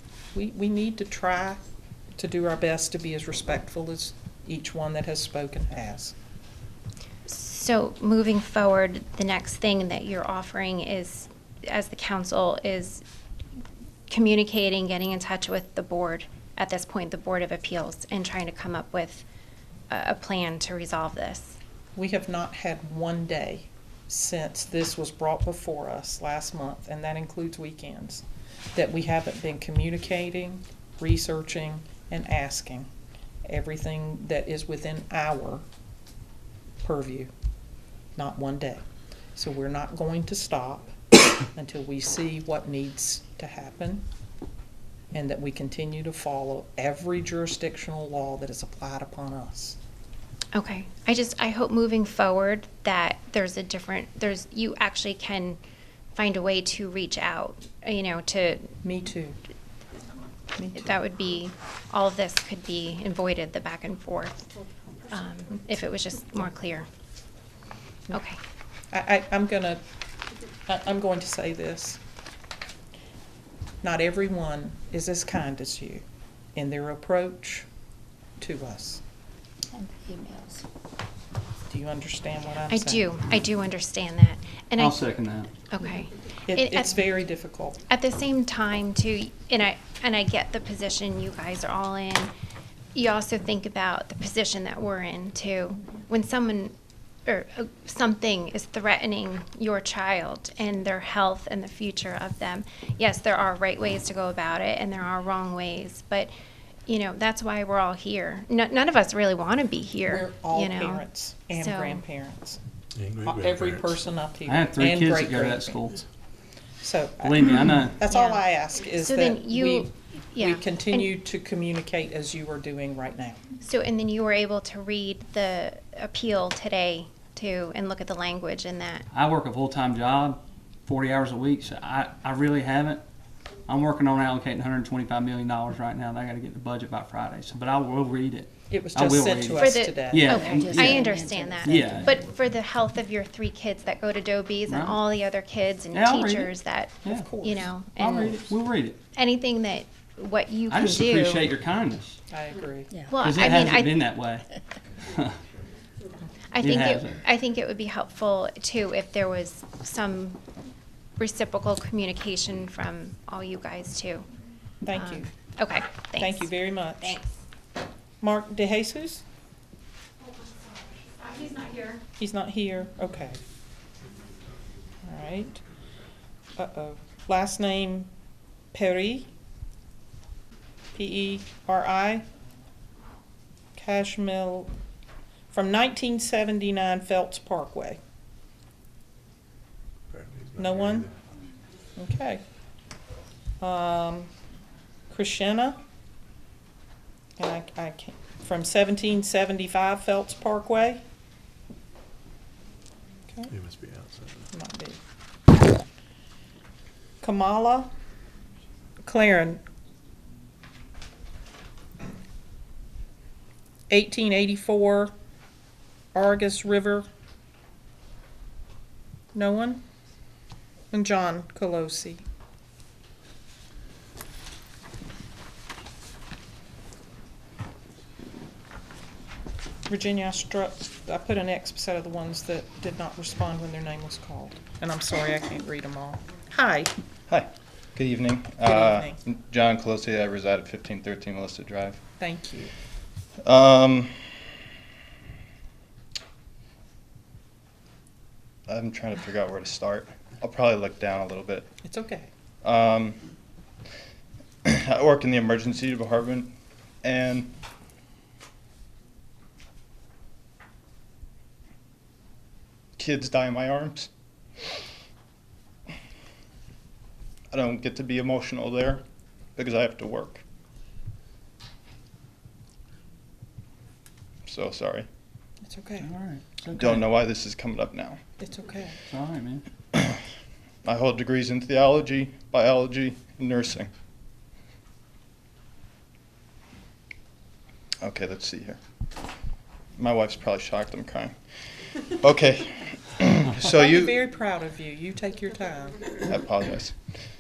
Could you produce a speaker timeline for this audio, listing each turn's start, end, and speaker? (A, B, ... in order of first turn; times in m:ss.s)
0:00.3-0:01.6 A
0:02.2-0:06.2 A
0:07.3-0:13.0 B
0:14.1-0:19.2 B
0:19.9-0:21.6 B
0:22.0-0:28.2 A
0:28.8-0:32.9 A
0:33.4-0:35.6 A
0:36.8-0:37.3 A
0:38.2-0:38.8 A
0:39.4-0:41.0 A
0:41.5-0:44.0 A
0:45.1-0:49.8 A
0:50.5-0:55.6 B
0:56.2-0:58.7 B
0:58.8-0:59.4 A
1:00.6-1:00.9 A
1:00.8-1:04.5 B
1:05.1-1:06.9 B
1:08.1-1:08.4 B
1:08.9-1:09.8 A
1:10.7-1:12.0 A
1:13.8-1:16.0 A
1:16.6-1:17.7 A
1:18.4-1:19.0 A
1:19.7-1:20.6 C
1:21.7-1:23.1 A
1:22.7-1:27.0 B
1:24.8-1:25.6 D
1:26.5-1:27.8 A
1:27.9-1:32.3 B
1:33.0-1:36.7 B
1:37.3-1:46.3 B
1:46.9-1:52.0 B
1:50.1-1:52.6 A
1:53.0-1:54.0 E
1:53.2-1:55.8 A
1:54.5-1:56.0 D
1:56.8-2:03.4 A
1:57.2-1:58.0 D
1:58.1-2:01.1 B
2:03.6-2:09.0 B
2:09.1-2:13.0 D
2:13.7-2:21.1 D
2:18.7-2:20.4 A
2:19.6-2:28.4 B
2:20.5-2:22.2 C
2:21.6-2:22.1 D
2:24.7-2:25.0 D
2:25.9-2:27.4 D
2:27.0-2:27.7 A
2:28.0-2:29.0 D
2:29.1-2:31.4 B
2:30.7-2:32.2 D
2:32.3-2:32.9 A
2:33.1-2:34.0 B
2:33.2-2:34.4 D
2:35.1-2:35.4 D
2:36.5-2:40.4 B
2:36.6-2:37.2 D
2:41.2-2:44.3 B
2:44.8-2:45.3 A
2:44.9-2:47.3 B
2:46.2-2:47.2 A
2:48.2-2:49.2 A
2:51.3-2:51.9 B
2:52.2-2:53.4 A
2:55.0-2:55.6 A
2:56.6-2:58.1 A
2:58.7-2:59.3 A
3:01.0-3:02.2 A
3:03.8-3:04.7 A
3:05.5-3:08.0 A
3:10.1-3:11.1 E
3:10.6-3:11.1 A
3:12.0-3:12.4 A
3:13.6-3:14.3 A
3:15.1-3:15.8 A
3:17.4-3:21.0 A
3:23.5-3:24.5 E
3:24.5-3:25.0 A
3:27.2-3:27.9 A
3:29.0-3:29.6 A
3:33.9-3:35.1 A
3:36.1-3:37.1 A
3:39.3-3:39.8 A
3:40.9-3:42.2 A
3:49.9-3:56.9 A
3:57.3-4:02.0 F
3:58.6-3:59.2 A
4:02.2-4:02.7 A
4:03.4-4:04.4 F
4:08.7-4:11.7 F
4:11.8-4:12.3 A
4:12.6-4:13.2 F
4:14.6-4:17.5 F
4:23.0-4:24.1 F
4:27.5-4:29.0 F
4:29.6-4:30.4 F
4:34.5-4:35.1 F
4:35.6-4:36.1 A
4:36.0-4:37.1 D
4:36.8-4:38.2 F
4:38.4-4:39.0 A
4:39.1-4:39.6 D
4:39.9-4:40.2 F
4:40.8-4:43.9 F
4:48.0-4:48.8 F
4:50.0-4:51.4 F
4:51.9-4:54.2 F
4:53.6-4:56.2 A
4:56.3-4:57.0 F